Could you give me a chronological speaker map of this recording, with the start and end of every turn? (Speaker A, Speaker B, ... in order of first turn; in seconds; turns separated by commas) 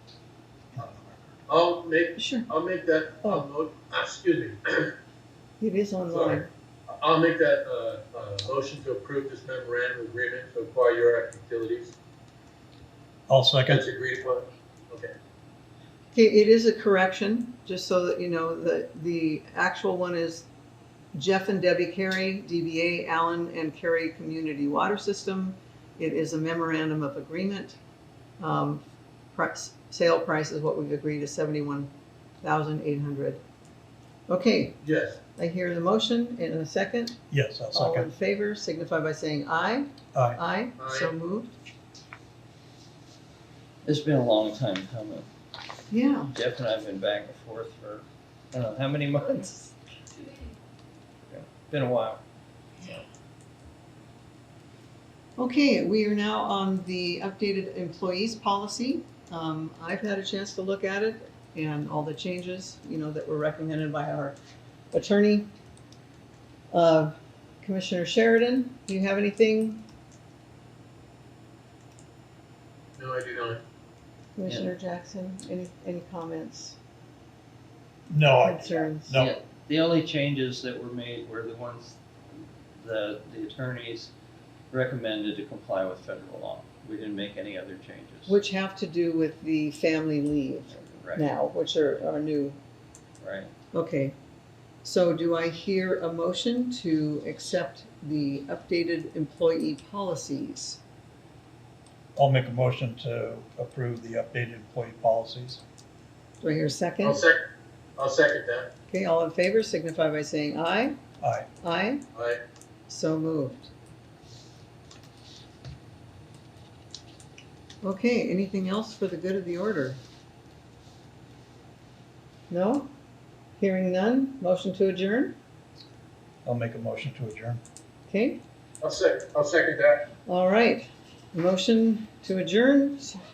Speaker A: 0.7-1.4, Speaker B: 1.5-4.9, Speaker C: 2.2-2.5, Speaker C: 5.6-6.5, Speaker B: 6.1-11.9, Speaker A: 13.3-13.8, Speaker B: 13.7-15.1, Speaker C: 16.1-20.4, Speaker C: 21.1-27.8, Speaker C: 28.4-31.9, Speaker C: 32.4-33.4, Speaker C: 34.3-34.8, Speaker B: 34.8-35.2, Speaker C: 35.4-37.2, Speaker A: 37.3-38.1, Speaker C: 37.7-41.5, Speaker A: 40.1-40.4, Speaker B: 40.8-41.1, Speaker D: 43.8-45.3, Speaker C: 45.9-46.3, Speaker D: 46.3-49.7, Speaker D: 51.3-52.2, Speaker C: 55.4-64.4, Speaker C: 64.9-65.5, Speaker C: 66.7-69.8, Speaker B: 73.0-73.6, Speaker C: 74.4-76.8, Speaker D: 74.5-74.7, Speaker A: 78.1-79.3, Speaker C: 78.4-79.2, Speaker D: 79.1-84.1, Speaker D: 84.7-88.3, Speaker C: 88.3-92.6, Speaker D: 90.7-91.2, Speaker D: 93.2-93.5, Speaker C: 93.7-94.1, Speaker C: 94.8-100.8, Speaker A: 102.2-105.6, Speaker C: 106.4-107.2, Speaker B: 107.0-108.7, Speaker C: 108.9-111.0, Speaker A: 111.2-111.5, Speaker C: 111.6-112.0, Speaker B: 112.1-112.4, Speaker C: 112.9-113.7, Speaker C: 117.8-120.0, Speaker C: 122.5-122.9, Speaker C: 123.6-125.3, Speaker A: 126.4-127.6, Speaker C: 128.1-128.4, Speaker B: 128.8-130.1, Speaker C: 130.3-133.2